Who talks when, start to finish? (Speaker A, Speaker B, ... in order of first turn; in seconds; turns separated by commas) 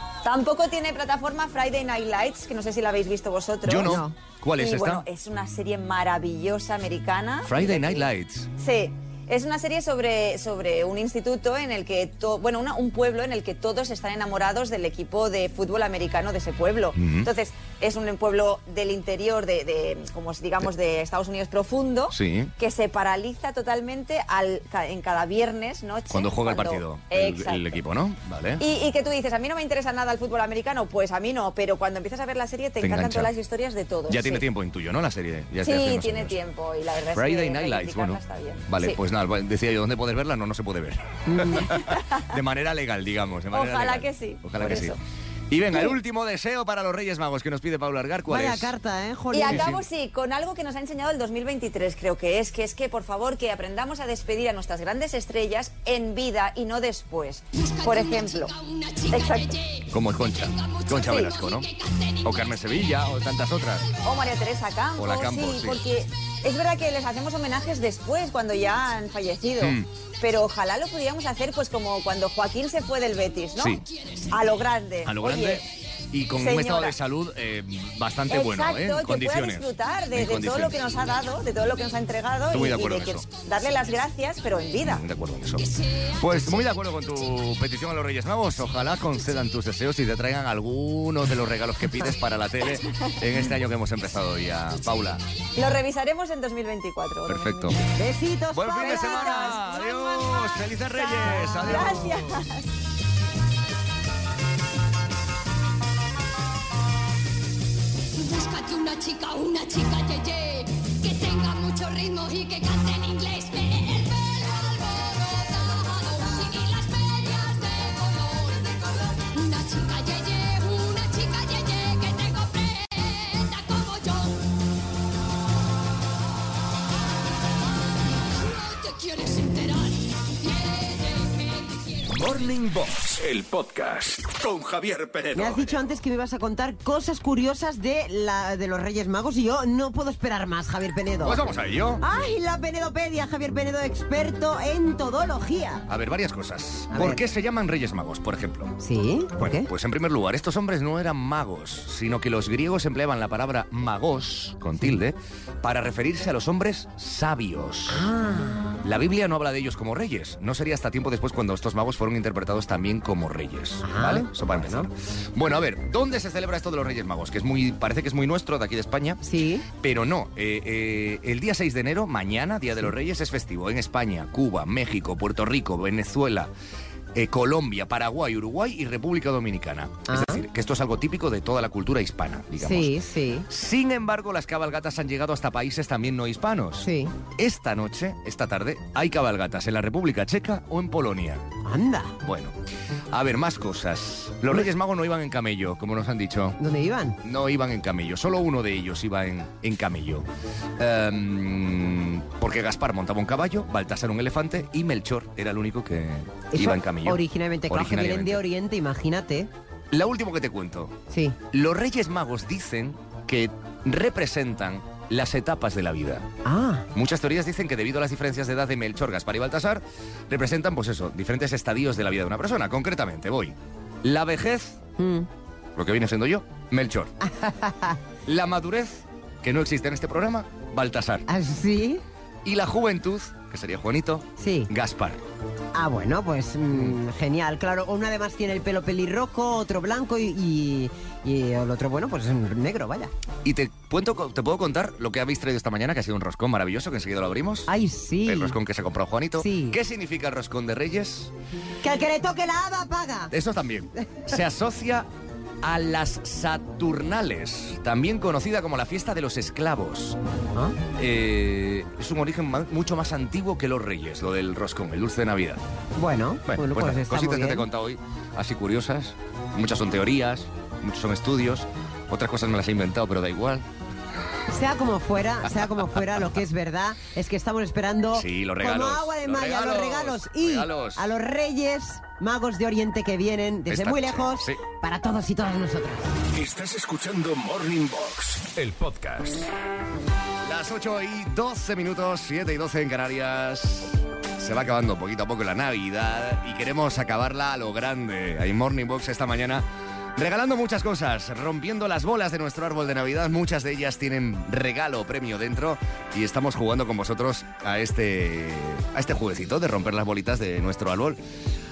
Speaker A: 0.2-4.0, Speaker B: 3.7-5.0, Speaker C: 3.8-4.1, Speaker A: 4.6-27.7, Speaker B: 7.5-8.5, Speaker B: 17.0-17.3, Speaker B: 22.1-22.5, Speaker B: 26.1-28.6, Speaker A: 28.6-34.5, Speaker B: 32.8-33.3, Speaker B: 34.1-36.4, Speaker A: 35.6-39.0, Speaker B: 37.1-45.0, Speaker C: 41.3-41.7, Speaker A: 41.8-42.2, Speaker A: 43.5-45.0, Speaker B: 45.5-48.7, Speaker C: 48.3-49.7, Speaker A: 49.3-59.7, Speaker B: 49.5-49.8, Speaker B: 59.9-63.9, Speaker A: 61.0-61.3, Speaker A: 64.0-75.7, Speaker B: 65.0-65.8, Speaker B: 69.6-69.9, Speaker B: 73.6-73.8, Speaker B: 75.1-81.0, Speaker A: 76.4-77.0, Speaker A: 78.3-85.0, Speaker B: 82.5-83.3, Speaker B: 84.8-95.2, Speaker A: 95.6-97.8, Speaker B: 97.3-97.8, Speaker C: 98.0-99.6, Speaker B: 98.5-102.4, Speaker A: 98.7-102.6, Speaker C: 101.6-102.1, Speaker D: 108.4-113.6, Speaker D: 119.3-121.4, Speaker E: 132.0-135.9, Speaker C: 135.3-141.4, Speaker B: 141.2-142.0, Speaker C: 142.0-145.8, Speaker B: 145.9-148.7, Speaker C: 146.9-147.2, Speaker C: 148.8-149.7, Speaker B: 149.4-158.1, Speaker C: 157.9-158.8, Speaker B: 158.8-169.2, Speaker C: 163.8-164.9, Speaker C: 169.2-169.7, Speaker B: 169.8-176.5, Speaker B: 177.2-182.9, Speaker C: 180.1-180.4, Speaker C: 182.6-183.5, Speaker B: 183.5-191.4, Speaker C: 186.8-187.2, Speaker C: 191.6-192.2, Speaker B: 192.2-192.5, Speaker B: 193.1-196.6, Speaker C: 196.6-197.2, Speaker B: 197.2-200.3, Speaker B: 200.8-208.4, Speaker C: 206.5-209.5, Speaker B: 209.9-211.0, Speaker C: 211.1-211.4, Speaker B: 211.5-216.3, Speaker C: 216.4-216.9, Speaker B: 216.9-224.8, Speaker C: 225.0-225.3, Speaker B: 225.8-227.1, Speaker C: 227.2-228.0, Speaker B: 228.3-231.3, Speaker C: 231.3-232.0, Speaker B: 232.4-235.2, Speaker C: 234.4-234.7, Speaker C: 235.7-243.1, Speaker B: 243.4-247.7, Speaker C: 247.7-248.6, Speaker B: 248.2-251.3, Speaker C: 249.4-249.8, Speaker C: 251.8-253.3, Speaker B: 253.3-255.1, Speaker C: 254.0-254.3, Speaker B: 255.6-260.2, Speaker B: 261.0-265.6, Speaker C: 266.0-267.7, Speaker B: 266.5-273.7, Speaker C: 274.5-286.2, Speaker B: 278.1-281.1, Speaker B: 283.7-284.6, Speaker E: 286.3-289.5, Speaker B: 290.4-299.6, Speaker B: 300.2-311.2